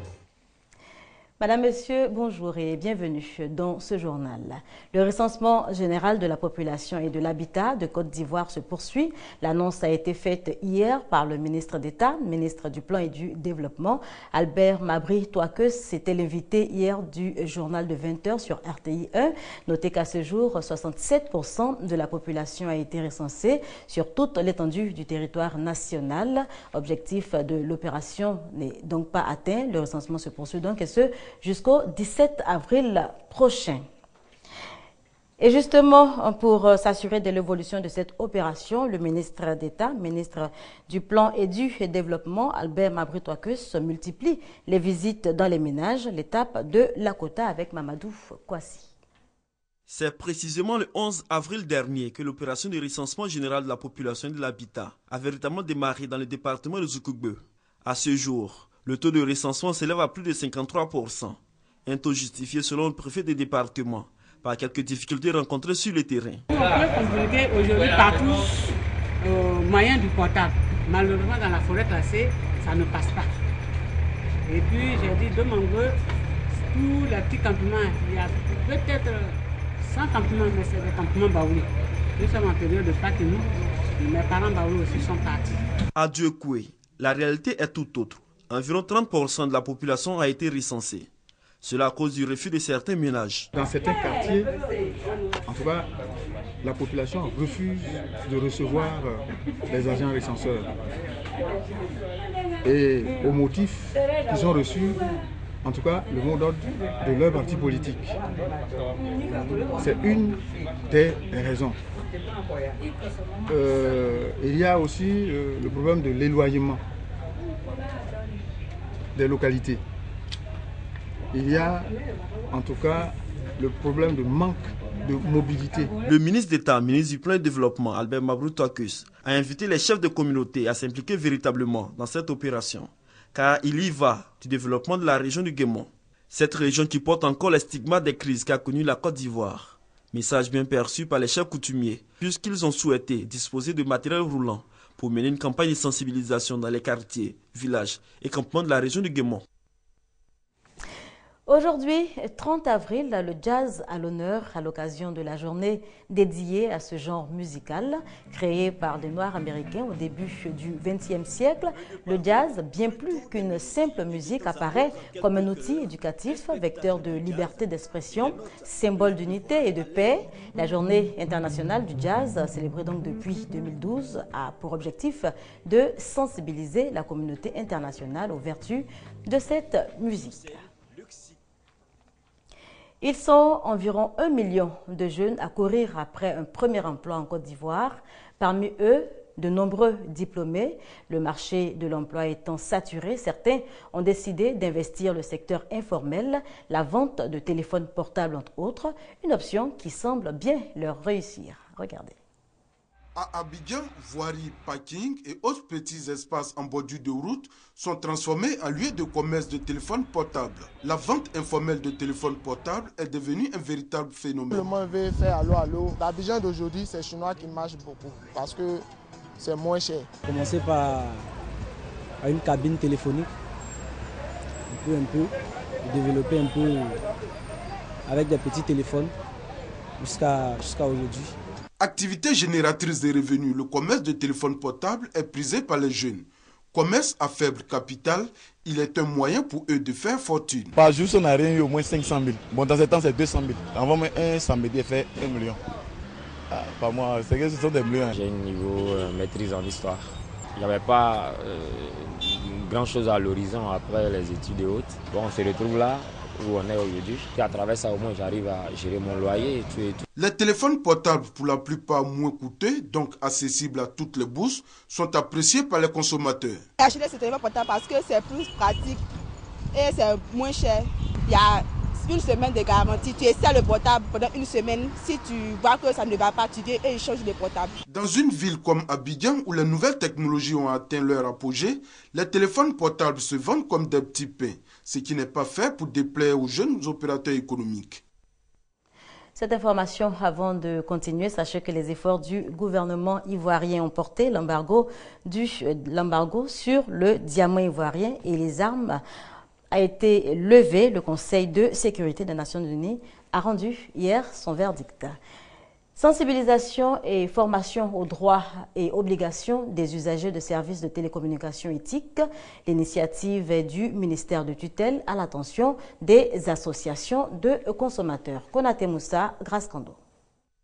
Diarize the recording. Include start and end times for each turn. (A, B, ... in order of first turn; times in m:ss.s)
0:01.4-0:33.8 A
0:35.4-0:48.9 A
0:49.9-1:06.4 B
1:06.5-1:13.3 C
1:14.5-1:16.0 C
1:16.7-1:23.5 C
1:24.0-1:25.6 C
1:25.9-1:31.1 B
1:31.6-1:33.5 B
1:33.5-1:34.5 D
1:35.4-1:35.9 D
1:36.6-1:40.7 D
1:42.6-1:45.0 D
1:45.6-1:48.2 D
1:49.5-1:51.8 D
1:53.5-1:56.8 D
1:59.1-1:59.8 D
2:01.3-2:01.9 D
2:02.5-2:05.9 D
2:06.0-2:29.4 B
2:31.4-3:00.7 A
3:03.0-3:22.2 A
3:23.1-3:34.6 E
3:34.6-3:38.8 F
3:39.4-3:39.9 F
3:40.2-3:41.2 G
3:42.2-3:43.3 G
3:44.7-3:45.3 G
3:45.8-3:47.0 G
3:48.1-3:49.1 G
3:50.0-3:51.3 G
3:51.8-4:00.7 E
4:00.8-4:05.4 H
4:06.7-4:07.9 H
4:08.1-4:20.0 I
4:20.2-4:26.6 E
4:26.8-4:29.0 J
4:29.7-4:37.8 J
4:37.8-4:48.0 E
4:49.4-4:59.0 A
4:59.7-5:05.2 A
5:06.0-5:20.0 A